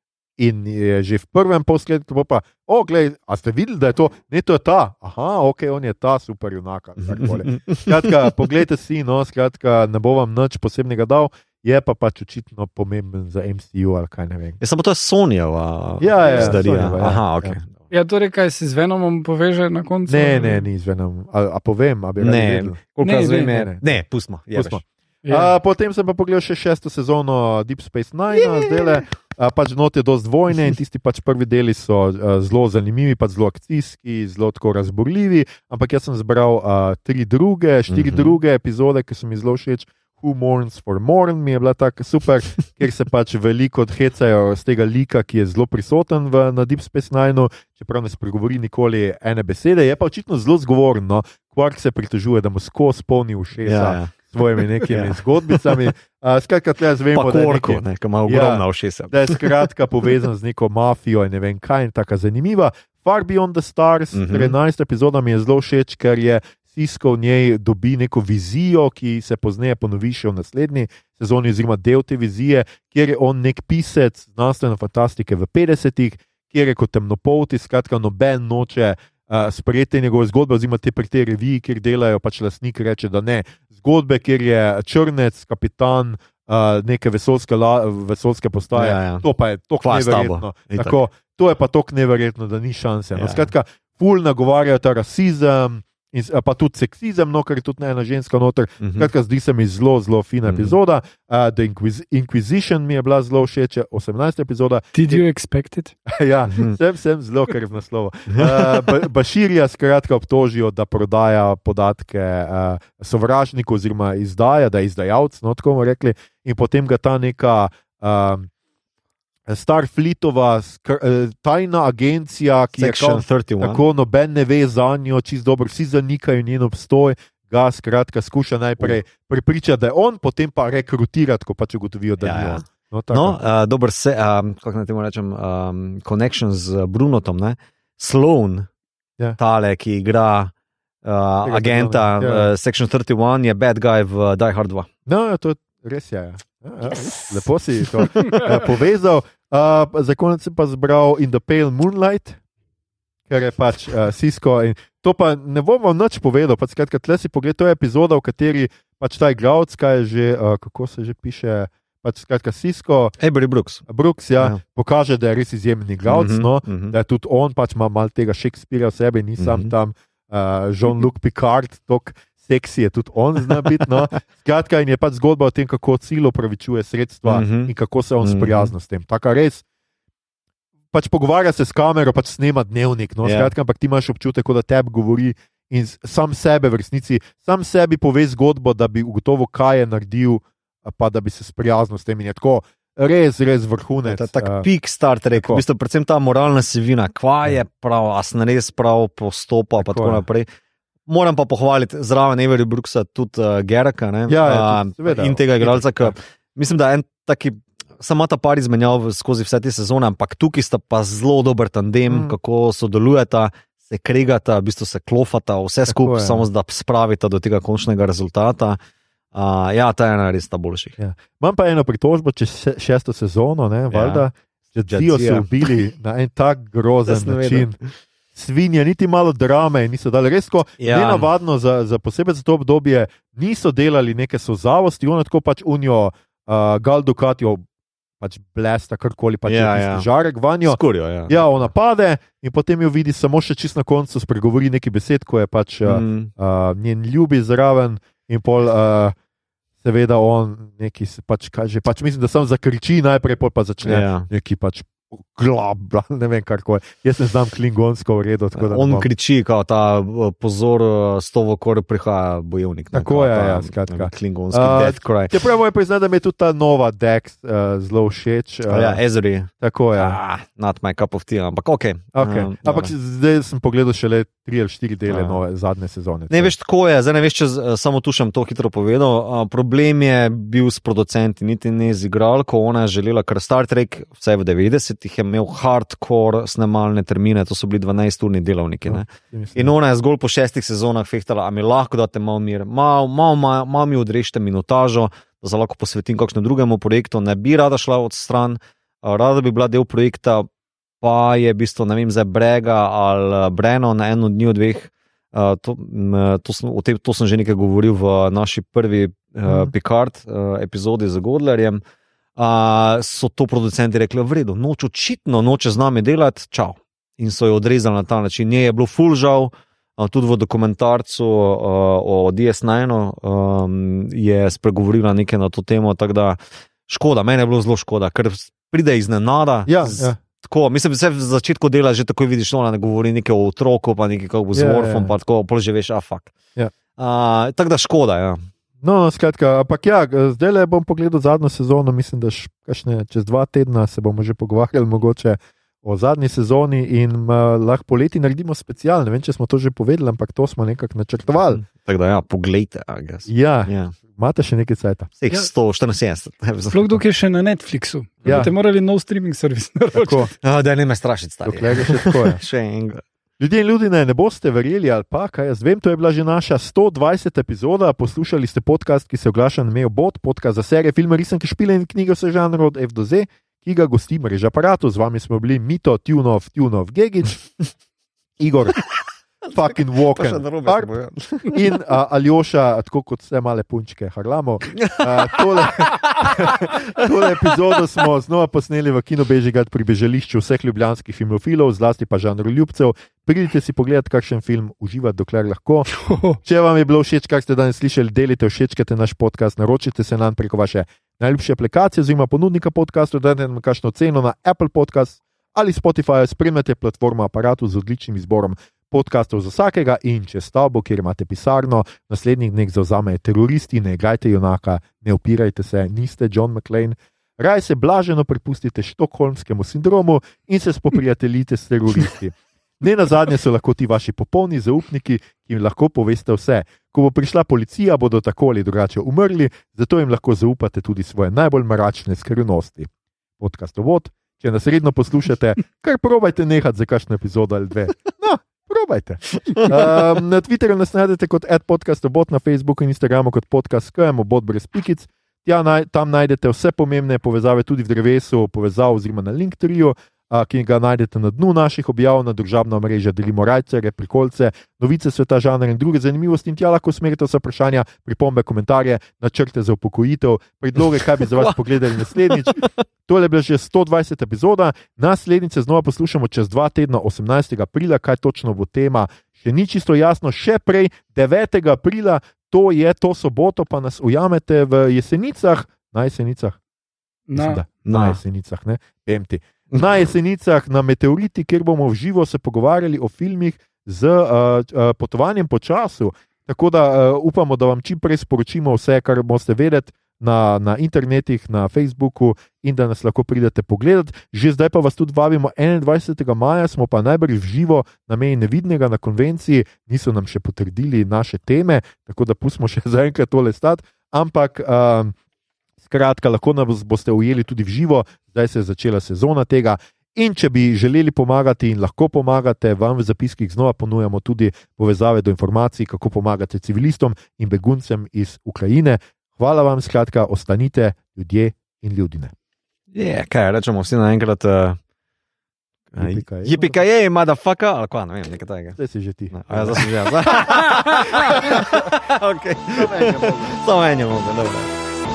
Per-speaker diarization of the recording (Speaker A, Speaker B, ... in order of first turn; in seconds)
Speaker A: 0.4-14.6, 16.0-17.6, 20.1-22.8, 23.4-23.9, 24.5-105.2, 106.0-118.5, 119.5-133.4, 141.4-142.5, 145.1-152.4, 153.3-163.2, 163.8-179.6, 180.9-194.7, 195.3-195.6, 199.8-200.2, 204.3-206.1, 212.1-212.3, 215.9-216.4, 221.0-227.8, 228.3-237.6, 238.2-249.1, 249.8-259.1, 262.9-269.0, 269.6-270.2, 272.1-276.5, 288.9-289.7, 309.5-309.7, 329.7-330.2, 334.5-335.1, 338.8-351.6, 353.2-355.4, 358.2-358.5, 359.9-360.3, 361.4-362.4, 363.4-377.4, 378.4-378.8, 379.4-380.9, 381.4-395.9, 396.4-432.9, 433.4-476.6, 477.3-505.1, 505.8-522.3, 525.9-526.8, 528.8-532.0, 532.7-533.6
Speaker B: 7.0-8.0, 14.6-17.7, 22.2-24.8, 28.4-29.0, 37.9-38.3, 53.6-54.1, 54.8-55.8, 57.1-59.5, 64.1-64.5, 88.8-89.2, 89.8-91.0, 93.2-93.5, 98.8-99.1, 100.4-100.8, 108.3-108.9, 122.8-123.8, 132.2-138.7, 139.4-140.5, 141.0-144.9, 146.9-147.4, 163.2-163.8, 166.1-166.9, 169.4-169.7, 177.2-178.7, 183.2-183.5, 194.0-200.4, 201.1-218.8, 219.3-221.0, 223.9-224.2, 224.9-225.7, 227.1-227.8, 230.8-231.3, 239.4-240.1, 240.7-241.7, 245.8-246.3, 253.8-254.3, 258.5-265.4, 268.7-272.9, 275.1-275.4, 276.3-300.5, 301.0-311.8, 312.4-336.3, 336.9-338.4, 351.5-353.9, 355.2-357.0, 358.2-358.5, 360.4-363.0, 379.6-381.6, 384.7-387.5, 439.6-439.9, 461.4-462.8, 477.9-478.2, 522.9-524.8, 526.0-528.8, 529.3-534.7
Speaker C: 16.3-16.5, 17.9-20.6, 23.0-23.6, 25.2-25.5, 104.9-105.9, 356.7-360.3, 396.0-396.4, 477.3-477.6